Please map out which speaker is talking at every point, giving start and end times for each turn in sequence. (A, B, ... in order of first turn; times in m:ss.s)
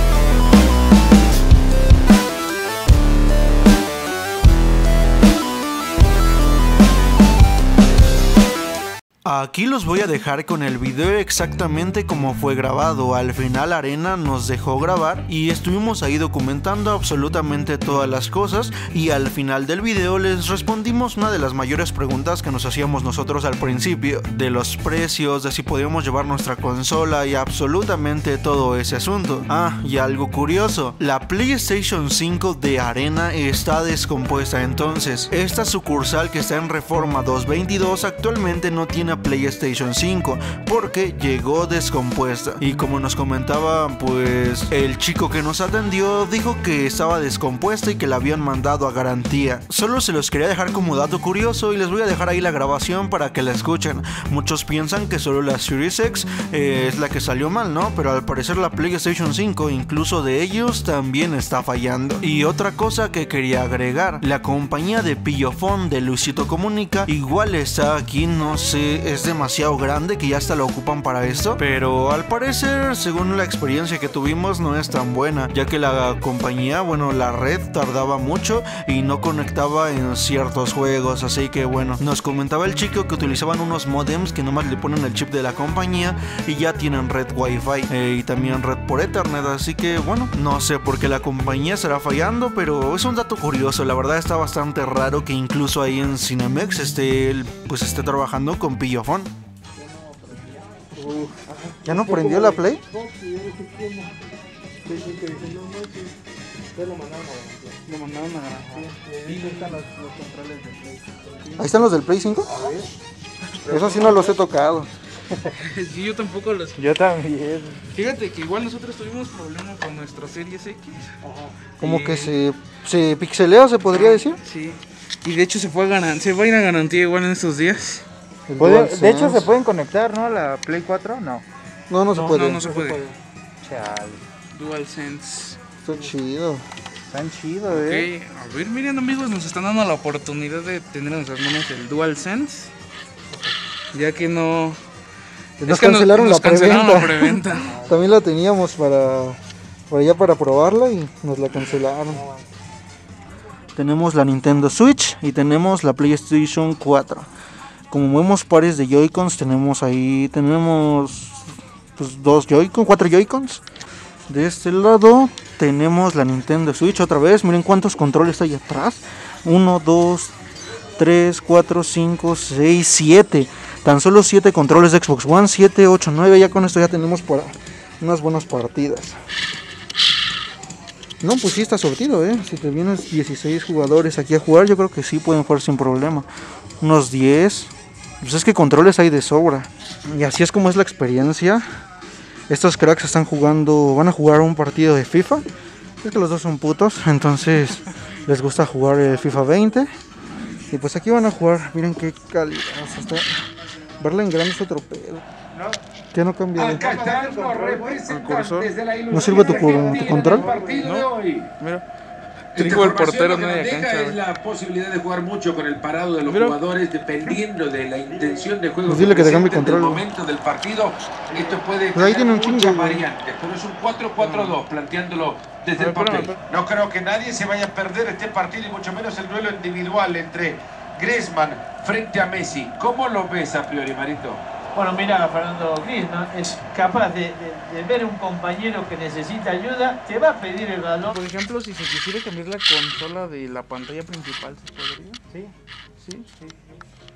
0:09.2-1:39.3 A
1:39.8-1:44.2 B
1:41.9-1:42.8 A
1:44.8-1:46.2 B
1:46.7-1:47.8 B
1:47.9-1:49.8 C
1:48.6-1:51.9 B
1:51.6-1:52.5 A
1:52.4-1:52.9 B
1:53.6-1:54.4 B
1:53.7-1:54.9 A
1:55.5-1:56.8 C
1:56.8-1:57.8 B
1:58.0-2:01.1 C
2:01.2-2:01.6 B
2:01.8-2:02.4 C
2:01.8-2:04.4 A
2:03.9-2:08.1 C
2:08.5-2:09.5 A
2:08.6-2:11.4 B
2:11.9-2:12.7 A
2:12.1-2:13.1 C
2:12.6-2:13.1 B
2:13.6-2:14.2 B
2:14.5-2:15.6 C
2:15.8-2:16.6 A
2:17.1-2:18.1 B
2:17.7-2:22.7 C
2:23.9-2:24.8 C
2:25.6-2:29.4 A
2:25.6-2:27.8 C
2:27.6-2:28.1 B
2:29.9-2:32.2 A
2:32.1-2:32.5 B
2:33.8-2:37.3 A
2:37.9-2:41.4 A
2:42.0-2:43.6 A
2:44.3-2:50.3 A
2:51.0-2:59.2 A
3:01.2-3:06.3 A
3:06.8-3:11.6 A
3:12.5-3:15.4 A
3:16.0-3:19.9 A
3:20.7-3:23.3 A
3:24.0-3:25.2 A
3:26.1-3:26.8 A
3:26.6-3:31.5 D
3:26.6-3:28.0 B
3:28.1-3:28.7 C
3:29.1-3:30.4 A
3:29.8-3:30.8 B
3:30.8-3:31.8 C
3:32.5-3:34.2 C
3:32.6-3:54.4 D
3:36.2-3:36.6 C
3:38.8-3:40.0 A
3:41.9-3:43.0 A
3:44.2-3:44.6 C
3:45.8-3:46.4 C
3:54.7-4:01.2 E
4:01.1-4:05.2 C
4:05.3-4:05.6 B
4:06.0-4:06.3 C